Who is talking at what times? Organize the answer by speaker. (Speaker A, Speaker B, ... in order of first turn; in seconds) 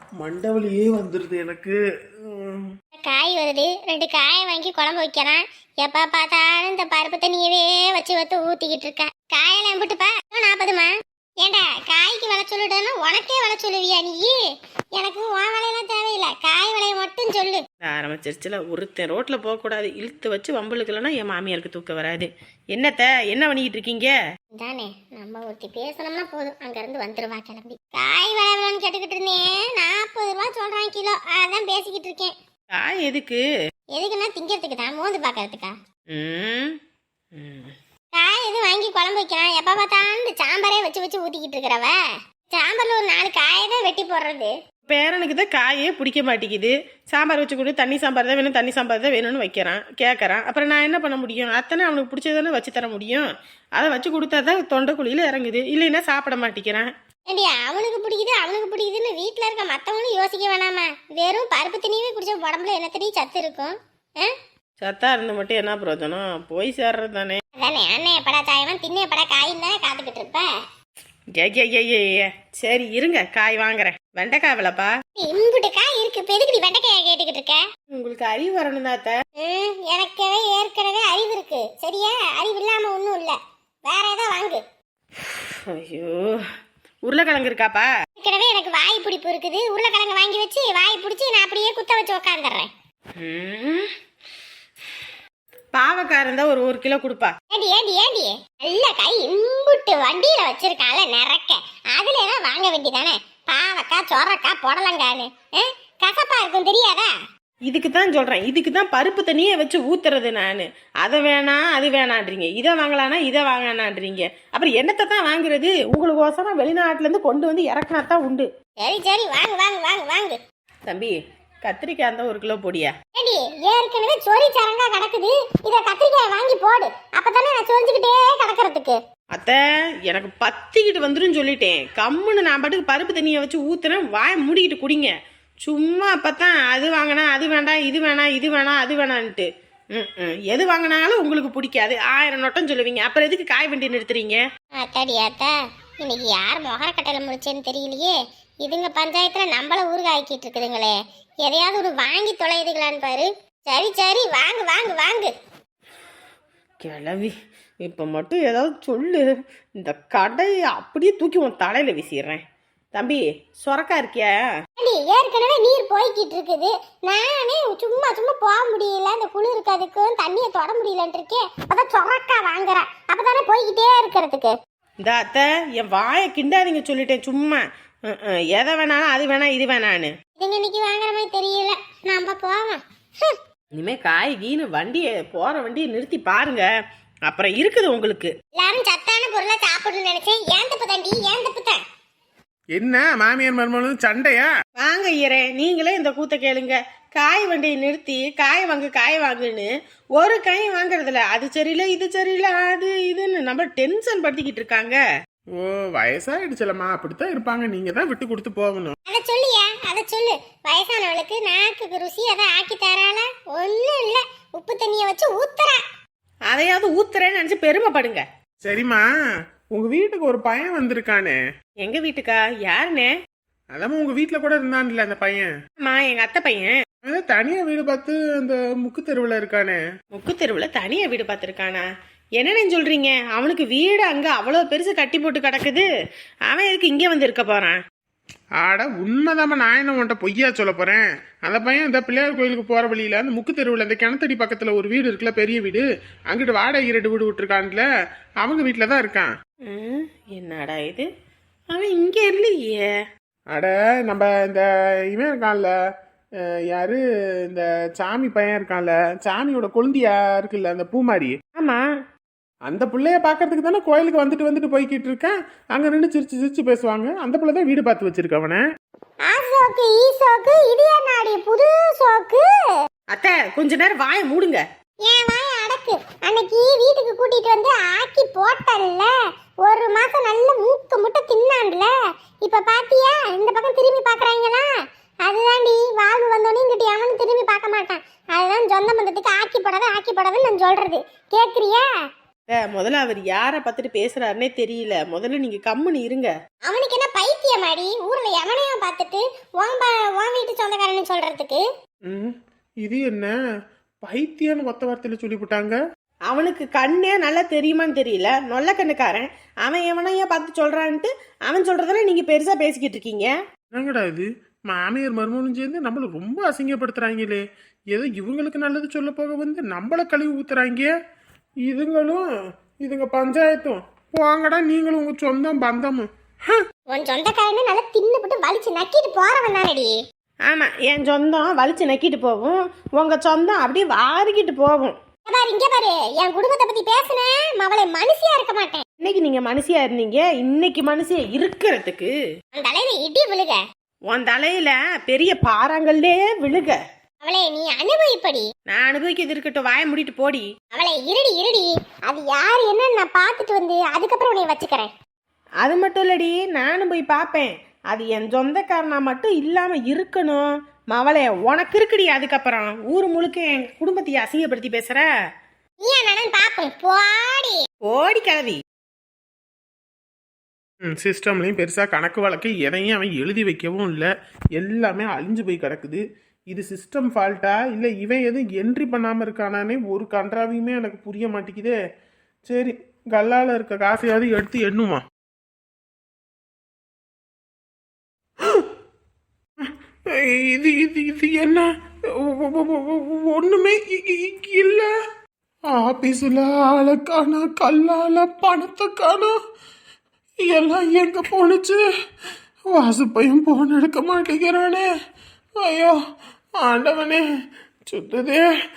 Speaker A: 0.2-2.7, 192.8-194.5, 205.6-208.9, 218.6-219.0, 219.7-221.4, 223.7-225.5, 227.0-229.8, 238.6-247.8, 248.4-249.3, 253.5-255.7, 256.7-261.4, 262.7-268.6, 302.1-303.3, 304.0-305.8, 313.7-320.9, 321.6-322.2, 322.8-326.5, 370.9-381.8, 382.5-385.0, 389.6-394.9, 395.7-399.3, 400.4-401.8, 402.7-404.9, 405.6-406.0, 406.6-407.2, 407.9-408.5
Speaker B: 3.0-10.9, 11.4-14.4, 14.9-17.6, 24.5-32.3, 33.9-35.7, 38.1-42.0, 42.5-44.5, 57.3-64.3, 67.6-70.5, 75.2-77.6, 79.4-84.6, 88.2-92.7, 97.5-107.1, 118.8-120.4, 123.1-128.9, 144.8-155.3, 164.8-174.5, 180.4-183.4, 188.5-191.8, 209.1-215.8, 269.3-272.5, 275.1-279.1, 279.6-281.9, 282.4-284.7, 285.2-291.9, 296.7-301.6, 326.9-329.9, 335.3-338.8, 342.5-343.6, 347.2-348.5, 350.7-354.9, 365.8-367.6
Speaker C: 17.8-24.1, 32.7-33.4, 36.1-36.8, 37.3-37.7, 44.9-56.9, 64.8-67.4, 71.3-74.9, 77.9-79.2, 85.2-86.4, 87.0-87.9, 93.2-93.9, 95.7-97.3, 107.7-118.5, 120.9-122.9, 129.3-144.4, 156.8-159.2, 159.8-162.4, 162.9-164.4, 175.0-180.1, 183.7-186.7, 187.2-188.3, 194.8-205.0, 216.5-218.2, 221.8-223.1, 225.8-226.7, 230.1-231.8, 232.4-235.9, 236.5-237.8, 249.7-251.1, 251.7-252.9, 273.1-274.6, 292.5-296.3, 306.3-313.3, 330.5-334.9, 339.0-342.1, 344.1-346.8, 348.7-350.5, 355.6-365.1, 367.8-368.6